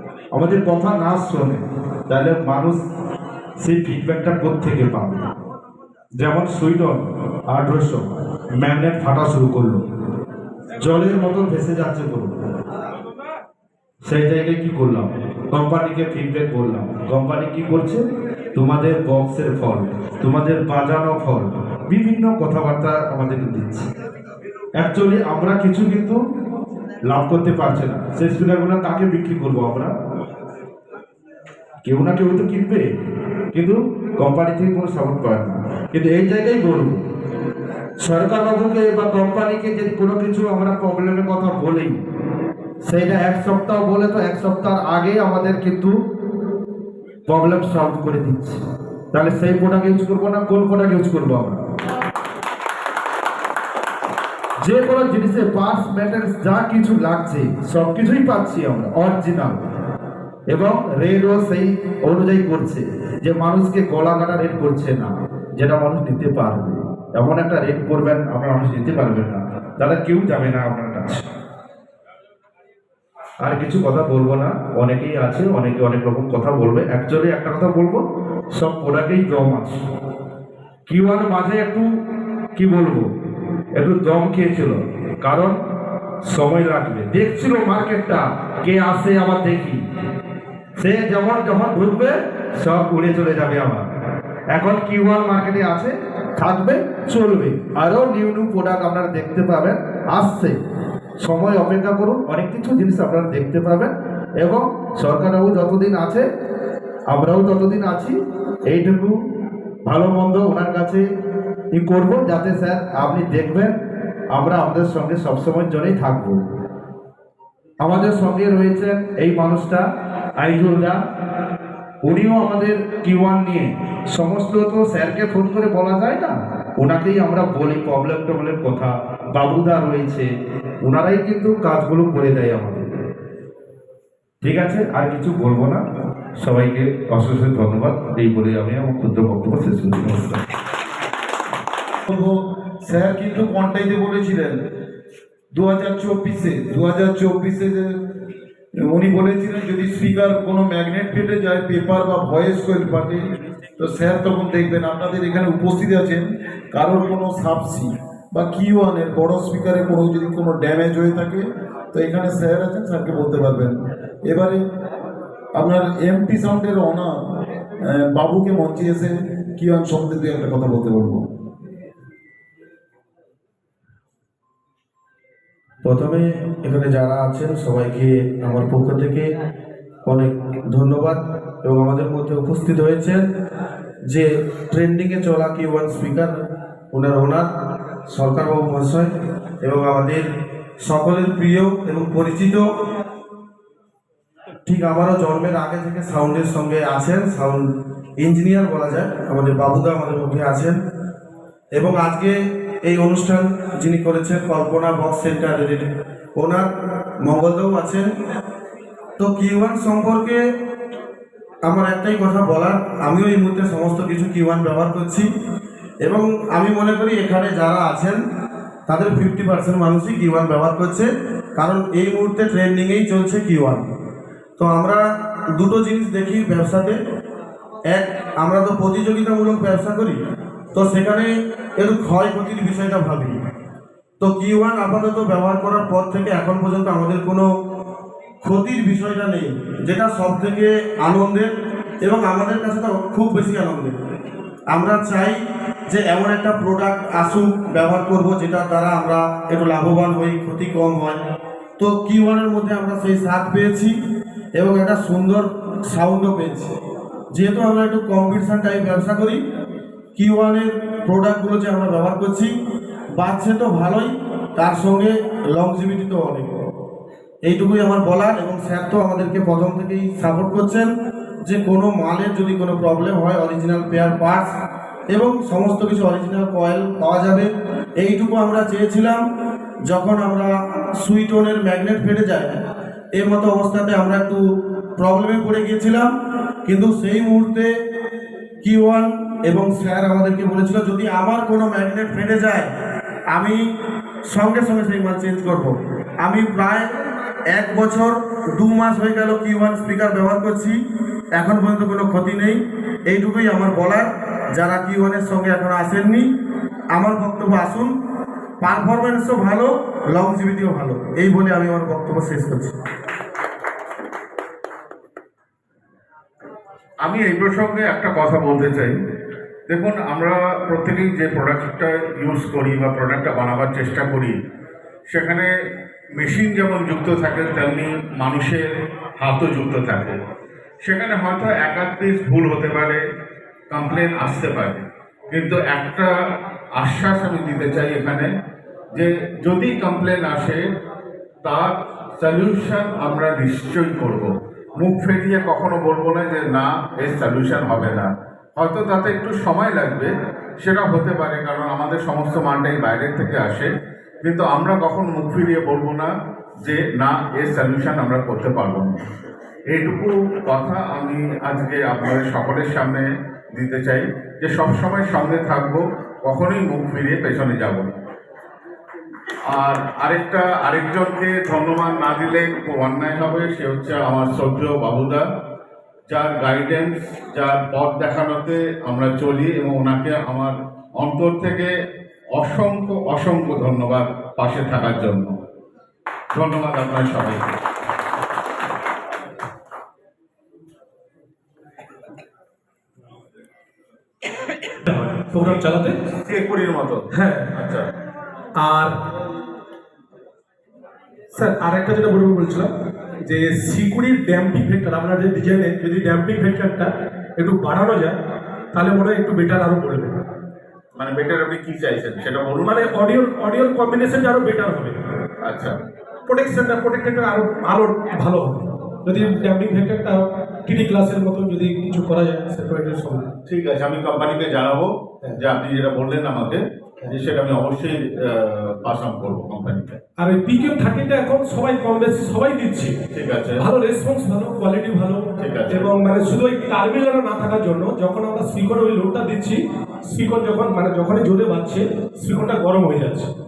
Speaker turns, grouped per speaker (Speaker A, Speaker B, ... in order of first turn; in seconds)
Speaker A: 0.3-2.8, 3.6-5.2, 6.2-8.1, 8.6-9.8, 10.8-12.3, 14.1-18.0, 18.5-23.9, 24.8-26.2, 27.1-29.9, 31.8-32.8, 33.5-37.0, 38.0-42.0, 42.8-45.9, 47.3-48.6, 49.1-51.6, 54.6-59.6, 60.5-71.2, 73.4-78.0, 78.5-79.8, 80.9-81.9, 82.5-83.1, 83.8-85.6, 86.2-89.8, 90.8-93.9, 94.5-100.5, 101.2-106.2, 107.1-108.1, 108.7-109.1, 109.9-111.0, 111.7-113.7, 114.3-116.4, 117.8-119.8, 120.4-121.0, 122.1-130.3, 130.8-132.8, 134.4-135.8, 136.4-140.4
Speaker B: 142.1-144.6, 145.5-147.9, 148.8-153.2, 153.8-163.7, 164.2-164.6, 165.5-167.1, 167.9-171.2
Speaker C: 175.8-179.3, 180.1-183.2, 184.1-186.3, 186.9-187.4, 188.1-189.1, 189.6-190.2, 190.8-192.6, 194.7-197.7, 198.2-200.8, 201.7-205.9, 206.4-206.7, 207.2-208.0, 209.2-210.4, 211.7-215.2, 216.0-218.2, 218.9-223.9, 224.6-225.0, 225.5-226.9, 227.9-230.2, 230.7-231.3, 231.8-233.3, 234.2-237.4, 238.4-241.5, 242.0-243.9, 244.7-245.3, 245.9-251.2, 251.8-253.9, 254.6-256.7, 257.3-259.4, 260.1-262.5, 263.2-266.5, 267.4-270.9, 271.4-274.4, 275.1-277.5, 278.0-279.2, 279.9-282.5, 283.1-284.4, 285.0-286.1, 286.6-287.7, 288.6-292.7, 294.3-295.7, 296.2-296.9, 297.5-300.7, 301.4-306.2, 306.9-307.9, 308.6-312.7
Speaker D: 317.0-318.9, 319.7-324.3, 325.1-325.5, 326.1-328.7, 329.2-330.1, 330.8-333.0, 333.7-336.1, 336.8-338.3, 338.9-340.6, 341.4-344.3, 344.8-350.1, 350.6-353.7, 354.2-356.1, 356.6-359.0, 359.7-367.9, 369.5-375.2, 376.1-381.7, 382.3-385.3, 386.3-387.5, 396.2-397.0, 397.5-397.9, 411.0-412.9, 415.4-415.7, 423.5-430.0, 433.1-433.6, 435.4-435.9
Speaker E: 394.8-395.9, 397.1-397.5, 398.6-398.9, 401.3-402.7, 403.2-408.1, 408.7-410.1, 412.6-414.9, 416.3-423.3, 430.2-433.0, 433.6-443.3